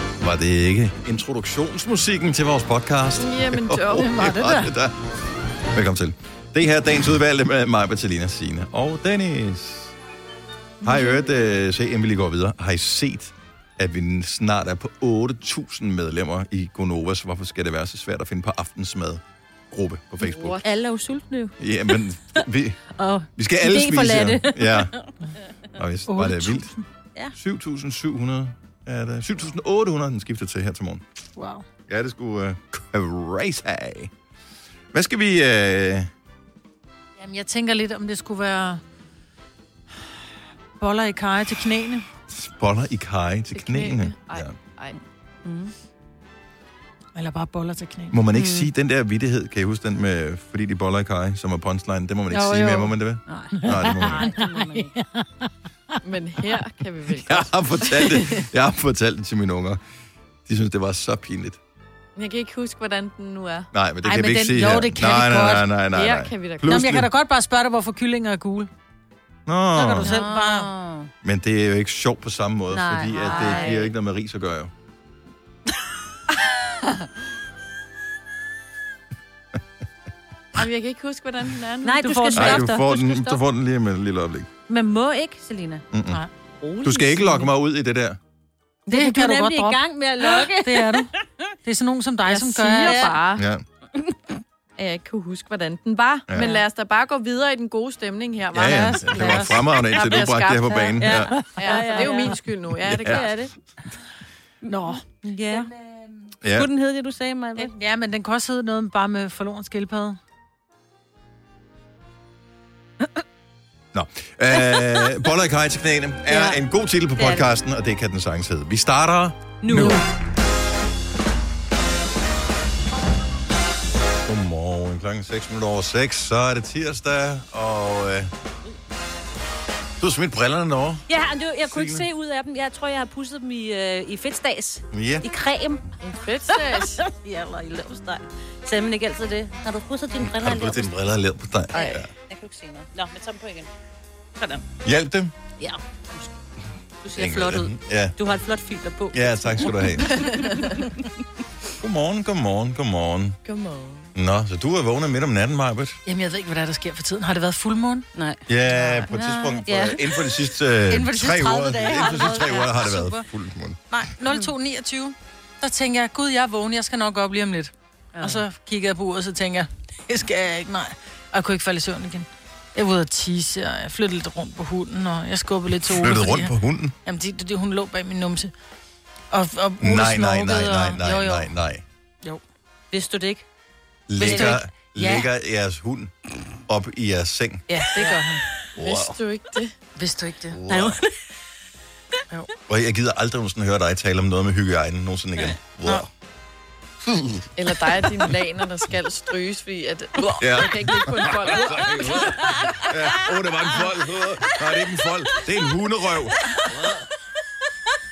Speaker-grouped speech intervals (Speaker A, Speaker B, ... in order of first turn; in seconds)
Speaker A: 0.2-5.0, 5.7-9.9, 10.8-20.6, 21.6-22.8, 23.4-24.9, 25.8-26.7, 27.3-31.0, 31.9-34.1, 34.9-36.1, 42.3-44.5, 48.1-54.2, 57.2-59.8, 60.5-61.6, 63.7-67.1, 69.5-70.2, 71.2-74.7, 82.3-84.5, 85.9-86.2, 86.8-88.2, 93.3-93.6, 96.3-96.6, 98.5-101.3, 102.8-103.3, 106.4-106.7, 113.9-120.0, 124.2-128.3, 130.0-131.0, 131.6-132.1, 134.9-135.2, 140.2-142.1, 144.8-145.3, 147.1-148.2, 149.1-150.5, 151.8-153.4, 154.1-156.0, 158.5-163.8, 175.8-176.9, 179.8-181.8, 184.1-186.1, 186.7-187.6, 188.8-189.1, 190.5-191.0, 192.7-196.1, 197.0-197.5, 200.4-206.5
Speaker B: 3.2-4.2, 20.2-20.6, 43.5-45.0, 56.0-58.5, 62.1-63.7, 65.9-66.8, 73.2-73.8, 80.5-82.6, 92.4-93.4, 94.8-101.0, 101.5-103.3, 136.0-137.0, 141.7-142.0, 153.4-154.1, 187.9-188.2, 188.8-189.7, 197.6-202.7
Speaker C: 3.9-4.7, 26.1-26.8, 31.4-31.7, 37.2-38.8, 40.8-42.0, 47.1-48.2, 52.3-52.9, 53.5-55.5, 64.0-65.7, 66.6-68.7, 69.7-70.7, 82.3-82.6, 88.9-91.1, 91.6-93.1, 98.6-100.1, 101.1-102.3, 104.7-105.0, 107.5-110.2, 119.7-120.0, 156.1-158.1, 160.9-163.2, 163.9-178.5, 179.3-181.5, 184.2-185.3, 187.7-188.4, 189.9-190.6
Speaker D: 10.8-11.3, 20.6-21.9, 22.9-25.1, 45.4-45.7, 48.3-48.7, 52.4-54.9, 70.0-71.1, 72.7-73.9, 81.8-83.4, 84.7-85.8, 86.6-87.5, 88.9-91.1, 92.3-93.3, 100.0-100.2, 101.0-102.4, 103.0-103.5, 104.7-105.7, 106.5-107.7, 114.7-115.1, 116.3-116.6, 117.2-117.5, 119.6-120.0, 131.1-135.8, 136.5-140.9, 141.7-143.7, 144.4-144.6, 145.6-146.3, 147.0-150.9, 158.1-158.4, 159.1-160.3, 162.1-162.6, 168.1-168.4, 182.9-183.4, 184.2-184.6, 190.7-191.0